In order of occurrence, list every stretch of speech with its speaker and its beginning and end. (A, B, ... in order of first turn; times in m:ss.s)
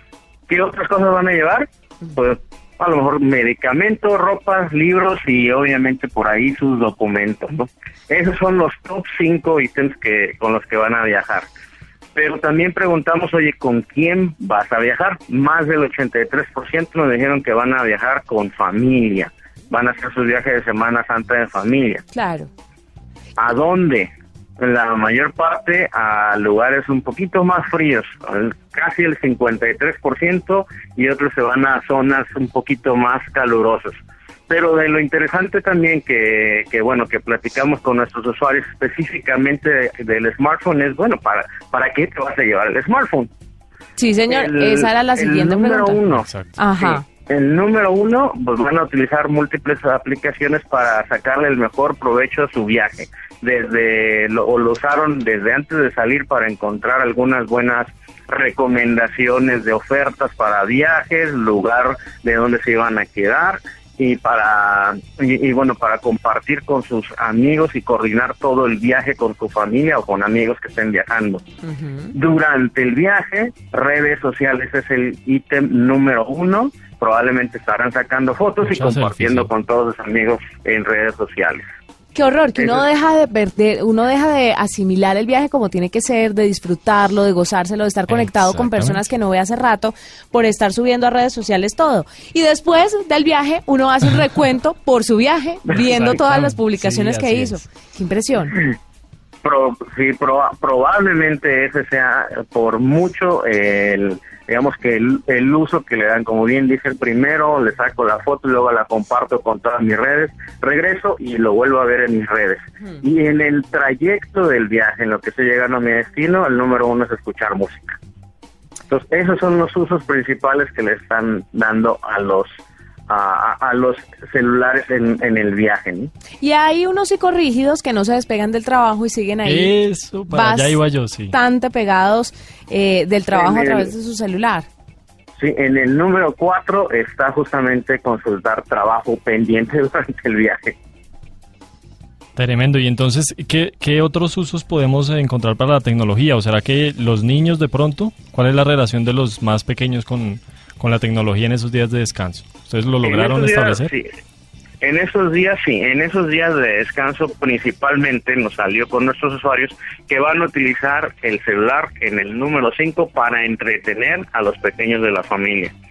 0:00.5-0:11.5 A
0:12.2-0:22.0 A
0:22.1-0:22.5 B
0:23.4-0:34.0 A
0:34.5-0:43.3 A
0:44.0-0:46.0 B
0:44.3-0:46.3 A
0:46.1-0:46.6 C
0:46.6-0:47.0 B
0:46.8-1:11.4 A
1:11.8-1:12.1 B
1:12.1-1:21.7 A
1:18.6-1:19.5 C
1:22.2-1:38.6 B
1:28.1-1:29.0 C
1:35.8-1:37.6 C
1:39.4-1:58.0 A
1:58.9-2:02.5 A
2:03.1-2:06.1 A
2:06.4-2:09.8 B
2:09.4-2:11.4 C
2:10.3-2:14.7 B
2:13.3-2:13.9 A
2:15.4-2:20.8 A
2:22.4-2:33.9 C
2:33.0-2:34.1 A
2:34.8-2:45.7 A